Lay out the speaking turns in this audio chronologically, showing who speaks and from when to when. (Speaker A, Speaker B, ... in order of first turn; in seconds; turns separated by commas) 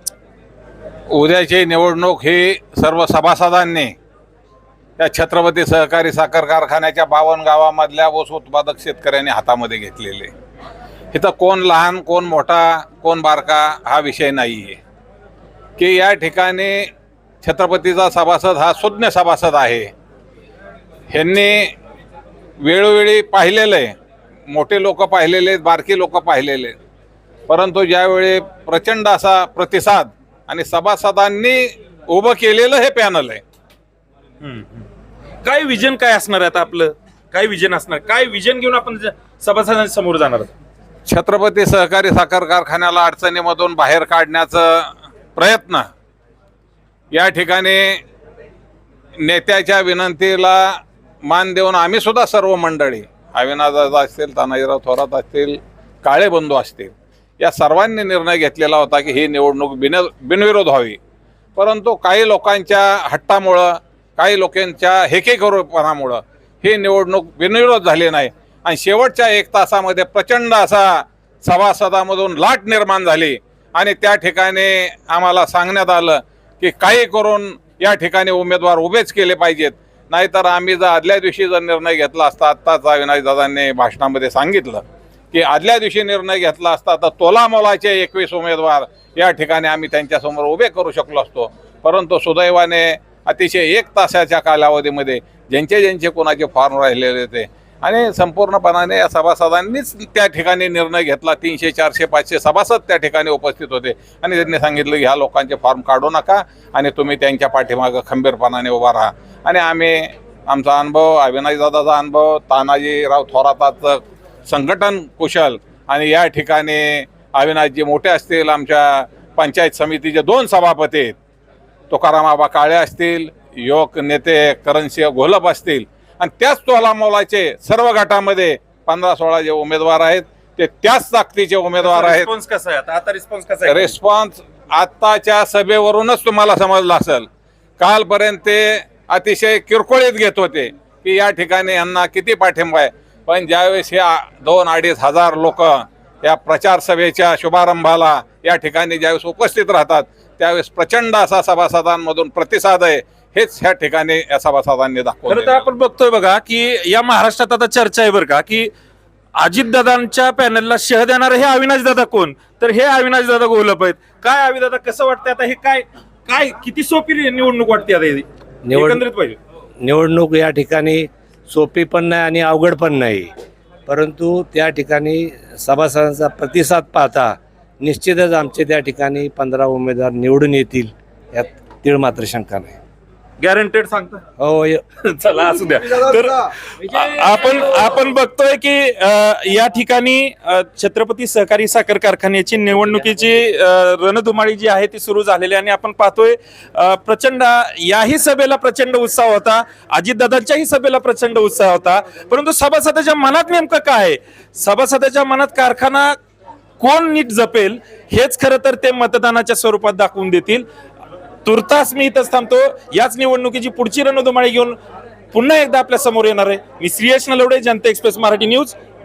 Speaker A: 1.1-4.0, Speaker A: 5.0-10.3, Speaker A: 11.1-14.8, Speaker A: 15.8-16.9, Speaker A: 17.4-19.9, Speaker A: 21.1-21.7, Speaker A: 22.6-23.9, Speaker A: 24.5-26.8, Speaker A: 27.5-33.4, Speaker B: 34.4-34.9, Speaker B: 35.4-40.5, Speaker A: 41.1-45.9, Speaker A: 47.1-48.0, Speaker A: 49.2-61.0, Speaker A: 61.6-121.2, Speaker A: 121.9-132.3, Speaker B: 131.8-133.9, Speaker A: 133.7-137.3, Speaker A: 137.8-155.7, Speaker B: 155.3-158.7, Speaker B: 159.4-169.4, Speaker C: 168.7-169.0, Speaker C: 169.8-173.3, Speaker C: 173.9-182.8, Speaker B: 183.4-184.2, Speaker C: 184.4-184.8, Speaker B: 185.0-206.2, Speaker B: 206.8-210.7, Speaker B: 211.4-214.8, Speaker B: 215.3-218.8